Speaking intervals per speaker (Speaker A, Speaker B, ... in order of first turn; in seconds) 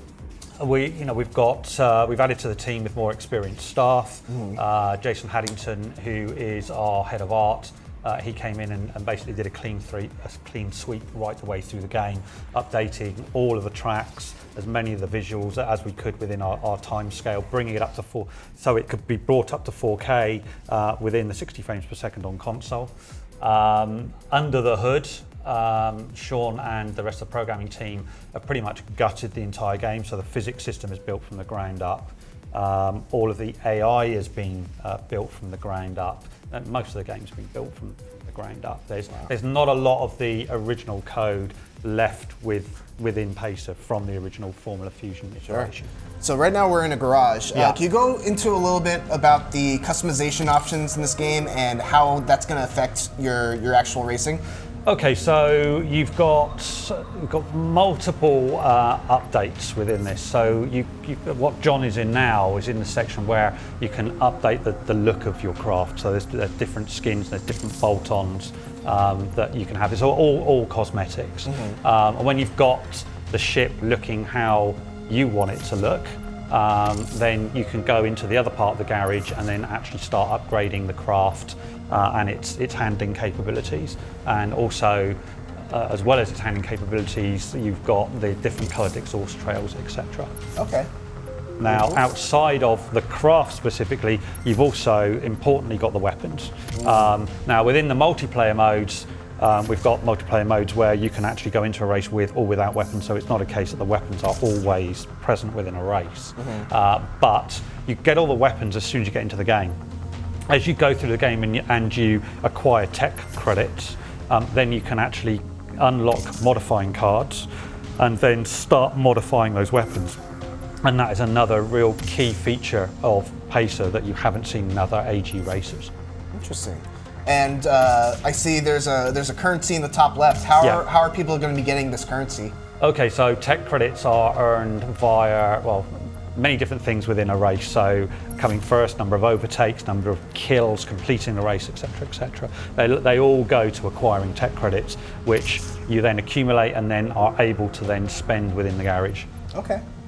Speaker A: 0.6-45.9, 47.5-47.8, 54.9-85.2, 85.7-90.3, 91.6-109.8, 110.5-120.2, 120.8-125.9, 132.8-149.3
Speaker B: 4.3-4.6, 46.2-54.4, 71.5-71.8, 90.6-90.9, 91.6-92.0, 96.8-97.1, 106.4-106.7, 126.3-132.5, 149.5-149.8